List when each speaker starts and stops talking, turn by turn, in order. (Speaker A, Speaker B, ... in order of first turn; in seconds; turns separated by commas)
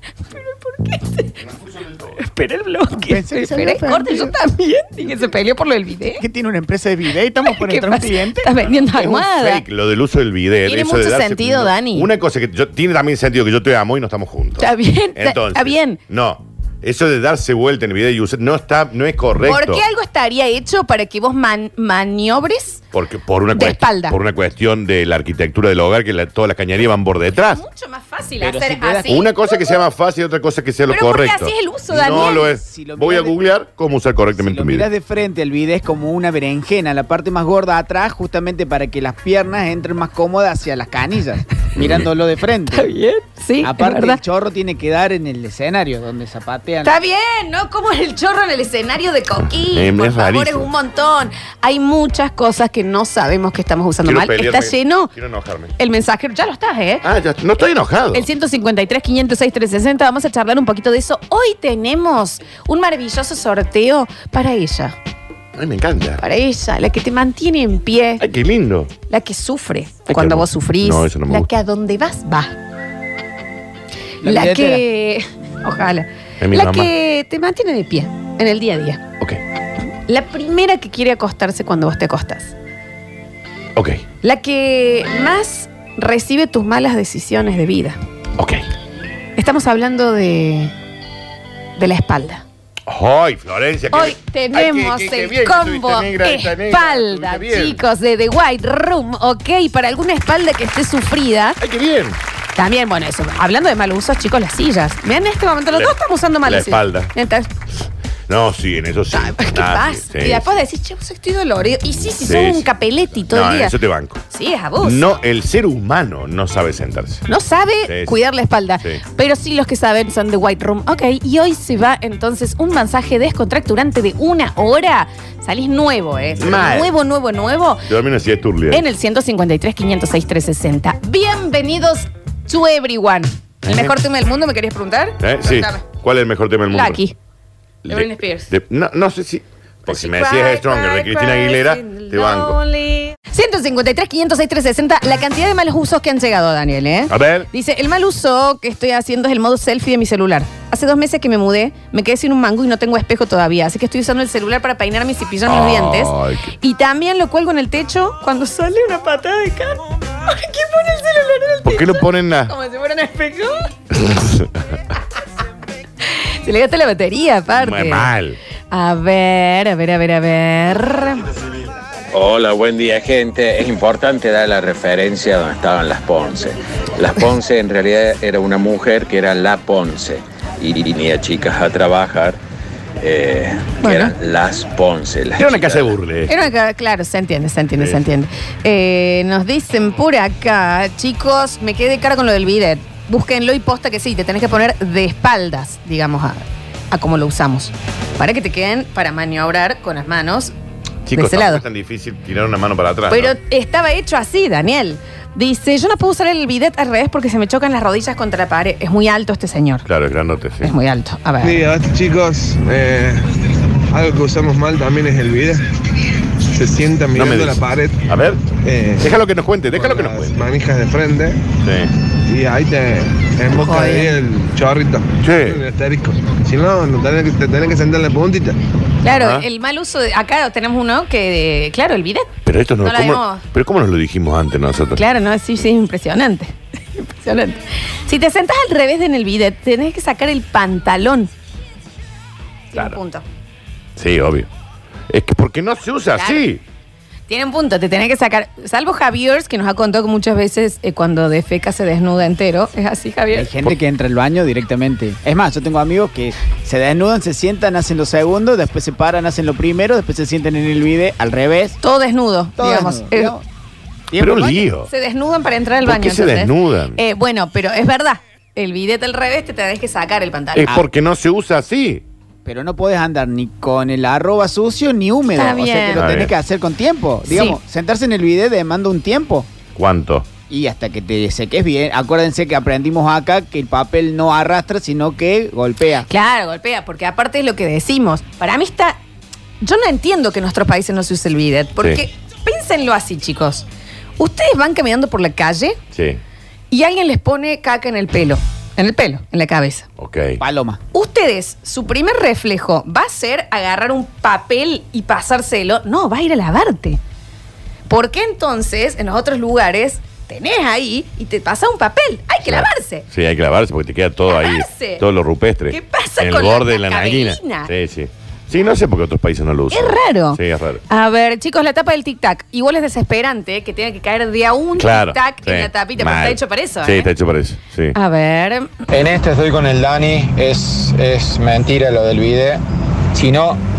Speaker A: 0.3-1.3, Speaker B: 1.4-2.2, Speaker A: 2.2-6.2, Speaker C: 3.0-4.3, Speaker C: 6.2-8.5, Speaker A: 7.5-9.6, Speaker B: 8.6-19.8, Speaker A: 10.7-12.1, Speaker A: 14.6-16.0, Speaker A: 19.4-22.8, Speaker B: 22.9-27.6, Speaker A: 23.5-24.2, Speaker A: 27.5-29.8, Speaker C: 28.4-29.3, Speaker B: 29.1-34.9, Speaker A: 30.9-32.5, Speaker C: 32.3-33.4, Speaker C: 34.4-42.9, Speaker B: 41.8-42.1, Speaker A: 42.7-44.2, Speaker C: 43.6-47.0, Speaker A: 46.8-55.1, Speaker B: 49.5-50.7, Speaker B: 54.0-55.7, Speaker A: 55.8-57.1, Speaker B: 57.0-58.3, Speaker A: 58.1-65.0, Speaker B: 65.6-66.2, Speaker A: 66.2-68.2, Speaker B: 68.2-68.9, Speaker A: 69.1-72.5, Speaker B: 70.1-71.5, Speaker C: 74.2-74.8, Speaker A: 74.2-79.0, Speaker B: 76.4-76.9, Speaker A: 80.1-82.5, Speaker B: 83.8-84.0, Speaker A: 84.2-88.0, Speaker B: 88.4-88.6, Speaker A: 89.4-90.7, Speaker A: 91.8-92.4, Speaker B: 92.9-97.8, Speaker A: 93.9-101.6, Speaker B: 101.6-102.2, Speaker A: 102.6-107.5, Speaker B: 106.5-107.1, Speaker B: 108.3-110.5, Speaker A: 109.1-113.7, Speaker B: 112.2-112.7, Speaker B: 113.3-114.2, Speaker A: 114.3-115.1, Speaker B: 114.8-117.2, Speaker A: 117.3-127.9, Speaker B: 117.9-118.2, Speaker B: 126.4-126.9, Speaker B: 127.9-128.8, Speaker A: 128.7-135.8, Speaker B: 133.7-133.9, Speaker B: 135.2-137.0, Speaker A: 136.7-137.2, Speaker B: 137.8-142.6, Speaker A: 137.9-138.5, Speaker A: 139.9-163.7, Speaker B: 147.1-147.5, Speaker B: 155.5-156.5, Speaker B: 161.7-162.5, Speaker B: 163.9-164.5, Speaker A: 166.4-168.1, Speaker B: 167.6-168.4, Speaker A: 168.7-171.3, Speaker D: 172.1-182.4, Speaker D: 183.0-185.9, Speaker A: 183.8-184.1, Speaker B: 185.4-186.3, Speaker A: 186.3-200.5, Speaker B: 201.1-203.4, Speaker A: 201.1-201.6, Speaker A: 203.1-209.9, Speaker B: 209.9-210.7, Speaker A: 210.6-211.6, Speaker E: 211.4-213.3, Speaker E: 213.9-215.6, Speaker E: 216.5-218.1, Speaker B: 217.2-218.4, Speaker E: 218.6-219.1, Speaker B: 219.0-220.4, Speaker E: 219.7-221.4, Speaker B: 221.6-221.9, Speaker E: 222.3-228.6, Speaker A: 223.5-224.2, Speaker B: 225.2-225.6, Speaker A: 229.0-233.4, Speaker B: 229.1-229.5, Speaker B: 232.4-235.0, Speaker A: 234.9-241.3, Speaker A: 242.7-243.2, Speaker B: 244.0-244.5, Speaker B: 245.1-246.6, Speaker A: 246.2-246.4, Speaker A: 247.3-253.5, Speaker C: 253.3-261.8, Speaker A: 261.8-263.4, Speaker C: 262.6-263.4, Speaker C: 264.1-264.7, Speaker B: 264.2-264.9, Speaker A: 264.9-270.8, Speaker B: 265.9-267.0, Speaker B: 270.6-272.0, Speaker C: 272.4-279.5, Speaker A: 275.4-276.0, Speaker B: 276.0-276.3, Speaker A: 277.3-277.6, Speaker B: 279.8-280.3, Speaker C: 280.5-286.1, Speaker A: 286.1-289.0, Speaker A: 289.6-293.7, Speaker A: 294.2-295.8, Speaker B: 295.9-296.2, Speaker A: 296.7-299.9, Speaker B: 300.0-300.4, Speaker C: 300.4-300.8, Speaker A: 300.9-307.0, Speaker A: 307.9-313.1, Speaker B: 312.5-320.8, Speaker A: 314.3-315.0, Speaker A: 315.7-317.7, Speaker A: 319.7-327.1, Speaker B: 324.8-328.0, Speaker A: 327.9-328.7, Speaker F: 328.9-332.6, Speaker F: 333.1-333.6